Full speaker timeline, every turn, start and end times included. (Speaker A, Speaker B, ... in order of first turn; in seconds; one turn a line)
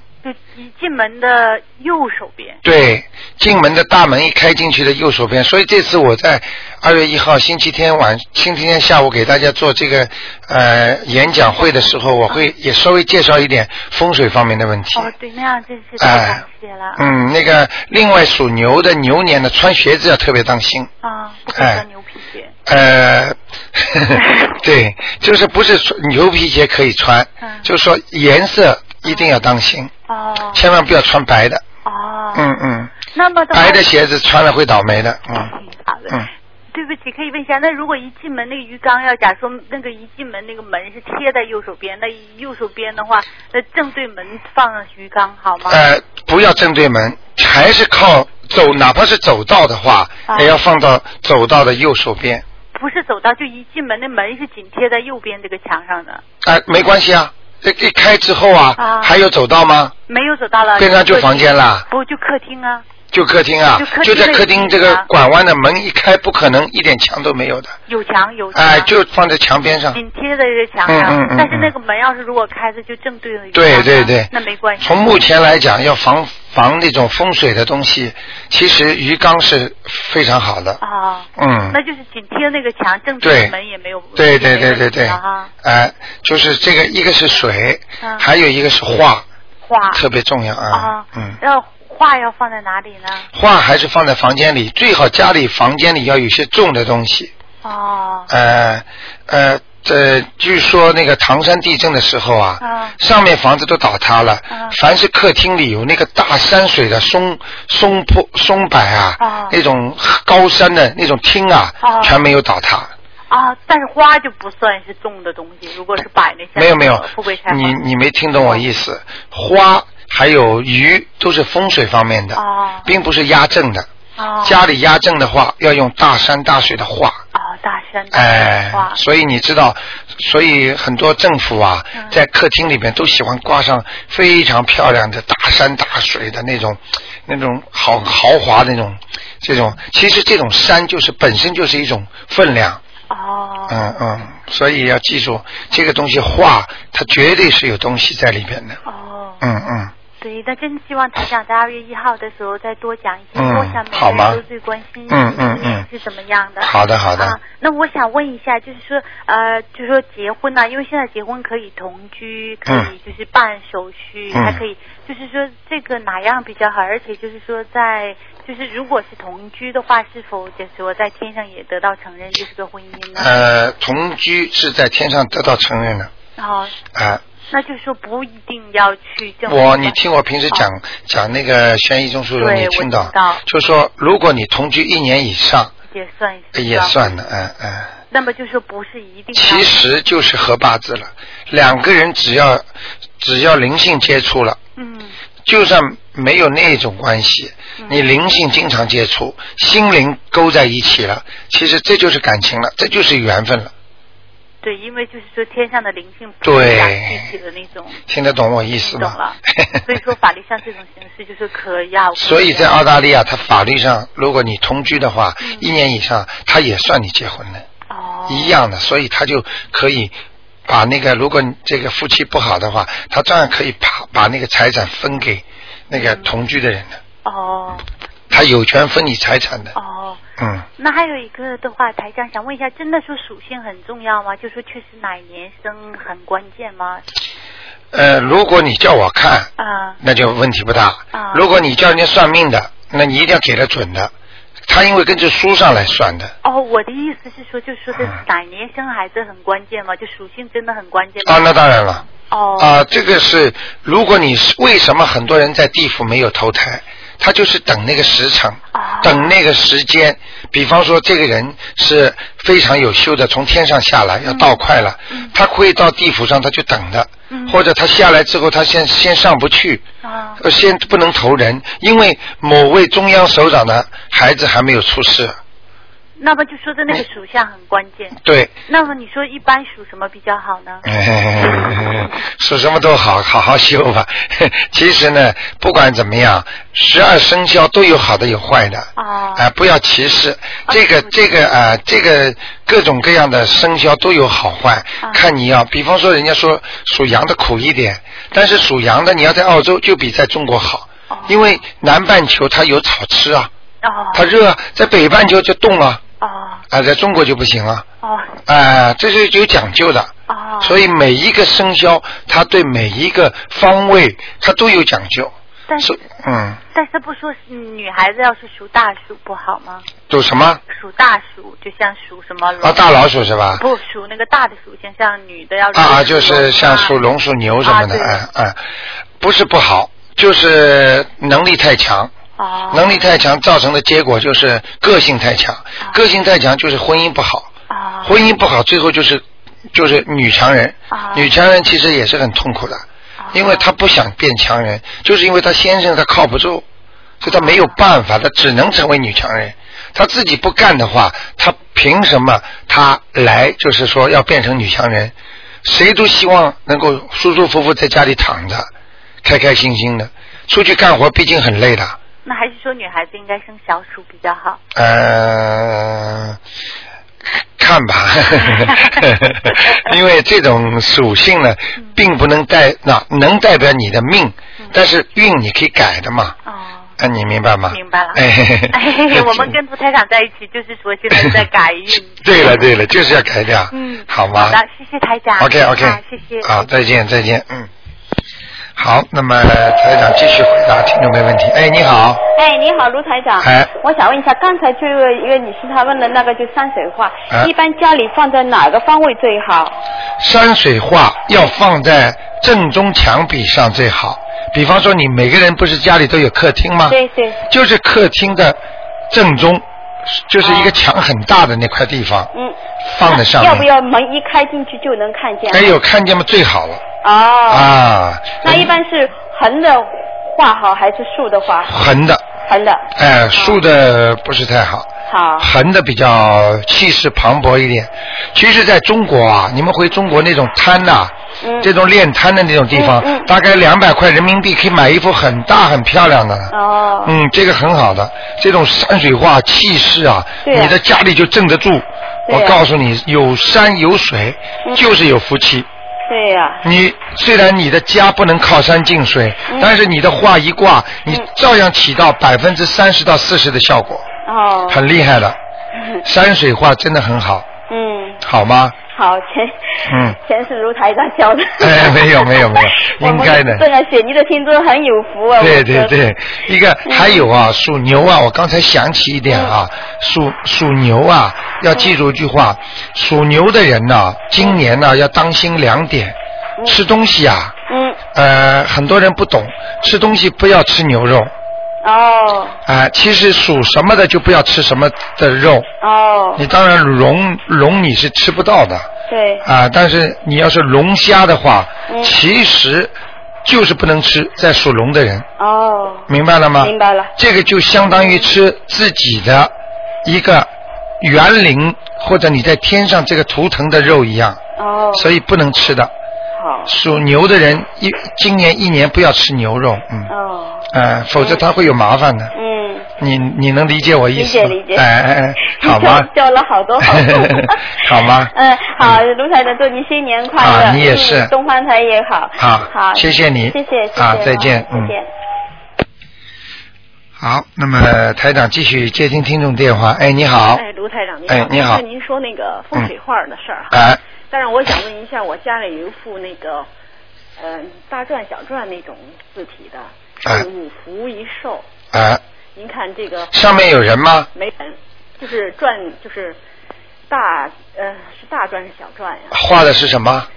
Speaker A: 0.2-2.6
Speaker B: 2.6-15.1
Speaker A: 14.9-17.0
Speaker B: 16.0-16.4
Speaker B: 17.0-20.9
Speaker A: 21.0-22.5
Speaker B: 21.5-21.8
Speaker B: 22.6-29.9
Speaker A: 24.1-24.6
Speaker A: 29.0-29.3
Speaker A: 30.1-30.6
Speaker B: 30.5-31.6
Speaker A: 31.8-32.5
Speaker B: 32.3-32.9
Speaker A: 33.1-33.9
Speaker B: 33.5-35.5
Speaker A: 35.4-45.8
Speaker B: 45.6-52.4
Speaker A: 50.3-50.5
Speaker A: 52.7-56.2
Speaker B: 56.4-59.9
Speaker A: 58.8-59.1
Speaker A: 60.1-62.8
Speaker B: 60.8-61.9
Speaker B: 63.1-67.8
Speaker A: 63.8-65.1
Speaker A: 67.9-68.9
Speaker B: 68.5-70.0
Speaker A: 69.9-75.2
Speaker B: 70.9-71.7
Speaker B: 73.5-80.8
Speaker A: 80.8-85.5
Speaker B: 81.4-81.8
Speaker B: 83.2-83.5
Speaker B: 84.2-89.2
Speaker A: 88.0-88.2
Speaker A: 89.6-90.0
Speaker B: 89.9-91.4
Speaker A: 90.7-93.3
Speaker B: 93.3-97.3
Speaker A: 97.6-98.3
Speaker B: 98.3-112.9
Speaker A: 102.6-103.0
Speaker A: 104.5-104.7
Speaker A: 109.2-109.5
Speaker A: 111.8-112.2
Speaker A: 113.3-117.8
Speaker B: 116.5-123.9
Speaker A: 122.3-122.9
Speaker A: 124.2-124.6
Speaker B: 124.4-127.2
Speaker A: 127.3-129.0
Speaker B: 128.1-142.8
Speaker A: 131.9-132.2
Speaker A: 143.1-143.8
Speaker B: 143.7-148.8
Speaker A: 148.8-149.4
Speaker B: 149.4-149.9
Speaker A: 150.2-173.4
Speaker B: 153.3-154.4
Speaker B: 155.1-155.8
Speaker B: 156.6-157.4
Speaker B: 164.3-164.6
Speaker B: 173.2-176.1
Speaker A: 176.4-176.8
Speaker B: 176.9-177.2
Speaker A: 177.5-180.0
Speaker B: 179.5-185.7
Speaker A: 182.3-183.4
Speaker A: 185.9-187.3
Speaker B: 186.5-187.9
Speaker A: 188.1-189.9
Speaker B: 189.3-192.7
Speaker B: 193.2-194.6
Speaker A: 194.8-195.2
Speaker B: 195.4-203.7
Speaker A: 197.8-198.0
Speaker A: 204.6-208.0
Speaker B: 206.4-207.3
Speaker B: 208.1-209.8
Speaker A: 208.8-212.8
Speaker B: 212.2-217.6
Speaker A: 215.4-215.7
Speaker A: 217.9-218.6
Speaker B: 218.3-220.1
Speaker B: 220.7-227.0
Speaker A: 225.9-226.4
Speaker A: 227.2-227.8
Speaker B: 228.3-229.7
Speaker A: 229.7-230.2
Speaker B: 230.4-230.7
Speaker A: 230.8-237.0
Speaker B: 237.9-244.1
Speaker A: 239.6-240.0
Speaker A: 241.1-241.5
Speaker B: 244.7-246.3
Speaker A: 246.4-251.5
Speaker B: 251.2-252.1
Speaker A: 252.3-252.8
Speaker B: 252.6-269.8
Speaker A: 258.7-259.3
Speaker A: 264.2-264.6
Speaker A: 265.1-265.3
Speaker A: 267.3-267.6
Speaker A: 270.0-270.4
Speaker B: 270.4-275.4
Speaker A: 276.2-280.8
Speaker B: 278.2-278.5
Speaker B: 280.8-303.5
Speaker A: 288.9-289.5
Speaker A: 290.7-291.2
Speaker A: 301.1-301.6
Speaker A: 303.8-304.2
Speaker B: 304.1-306.0
Speaker A: 306.2-306.6
Speaker B: 306.7-307.8
Speaker A: 308.0-308.4
Speaker B: 308.4-316.6
Speaker A: 310.3-310.8
Speaker A: 315.7-316.0
Speaker A: 316.7-319.9
Speaker B: 320.1-320.6
Speaker A: 320.7-322.9
Speaker B: 322.6-323.6
Speaker A: 323.5-327.0
Speaker B: 325.7-328.6
Speaker A: 327.6-328.2
Speaker B: 329.2-332.1
Speaker A: 332.4-333.0
Speaker B: 332.7-337.5
Speaker A: 337.7-338.2
Speaker B: 338.0-346.6
Speaker A: 340.9-341.3
Speaker A: 343.2-343.7
Speaker B: 347.2-358.7
Speaker A: 347.2-347.8
Speaker B: 359.2-362.0
Speaker A: 362.2-364.6
Speaker B: 364.7-366.4
Speaker B: 367.3-376.4
Speaker A: 368.4-369.0
Speaker A: 369.6-369.9
Speaker A: 376.4-376.9
Speaker B: 377.0-379.5
Speaker A: 377.7-382.2
Speaker B: 381.1-381.4
Speaker B: 382.1-384.6
Speaker A: 383.7-386.7
Speaker B: 385.4-387.7
Speaker B: 388.8-392.2
Speaker C: 392.3-399.8
Speaker B: 393.4-393.7
Speaker B: 400.2-408.6
Speaker C: 406.9-407.4
Speaker B: 409.1-412.3
Speaker C: 410.4-410.7
Speaker C: 412.3-415.8
Speaker B: 412.9-413.7
Speaker B: 415.5-416.8
Speaker C: 417.0-417.7
Speaker B: 417.5-418.8
Speaker C: 418.4-421.7
Speaker B: 421.7-422.2
Speaker C: 422.5-423.6
Speaker B: 422.9-436.5
Speaker C: 425.1-425.5
Speaker C: 431.4-431.7
Speaker C: 432.7-433.3
Speaker C: 436.5-437.1
Speaker B: 437.0-445.7
Speaker C: 440.4-440.8
Speaker C: 442.3-442.6
Speaker C: 446.1-446.6
Speaker B: 446.6-454.1
Speaker C: 454.2-454.9
Speaker B: 454.7-455.4
Speaker B: 456.0-457.5
Speaker C: 457.7-458.2
Speaker B: 458.2-458.8
Speaker C: 458.8-465.9
Speaker B: 459.9-460.2
Speaker B: 461.6-463.6
Speaker B: 465.4-477.6
Speaker C: 466.9-467.2
Speaker C: 477.7-478.0
Speaker B: 478.1-481.3
Speaker C: 481.8-482.6
Speaker B: 482.6-485.7
Speaker C: 485.8-486.4
Speaker B: 486.4-488.9
Speaker C: 489.1-489.4
Speaker B: 489.4-492.9
Speaker C: 491.9-492.1
Speaker B: 493.4-495.3
Speaker C: 495.4-496.1
Speaker B: 496.1-499.5
Speaker C: 496.6-497.1
Speaker C: 497.9-498.3
Speaker B: 500.0-500.5
Speaker B: 501.0-504.4
Speaker C: 504.6-505.1
Speaker B: 504.9-505.9
Speaker C: 506.4-506.7
Speaker B: 506.7-510.1
Speaker C: 510.1-511.4
Speaker B: 510.7-512.3
Speaker C: 512.3-512.9
Speaker B: 513.0-516.1
Speaker C: 514.1-514.8
Speaker C: 515.4-525.1
Speaker B: 516.8-519.0
Speaker B: 520.4-521.3
Speaker B: 522.4-524.9
Speaker B: 527.2-530.6
Speaker D: 530.5-536.7
Speaker B: 531.3-531.8
Speaker B: 533.7-534.0
Speaker D: 537.4-541.7
Speaker B: 541.9-542.2
Speaker D: 542.5-543.4
Speaker B: 543.3-544.3
Speaker D: 544.3-546.4
Speaker D: 547.1-549.4
Speaker B: 549.3-550.3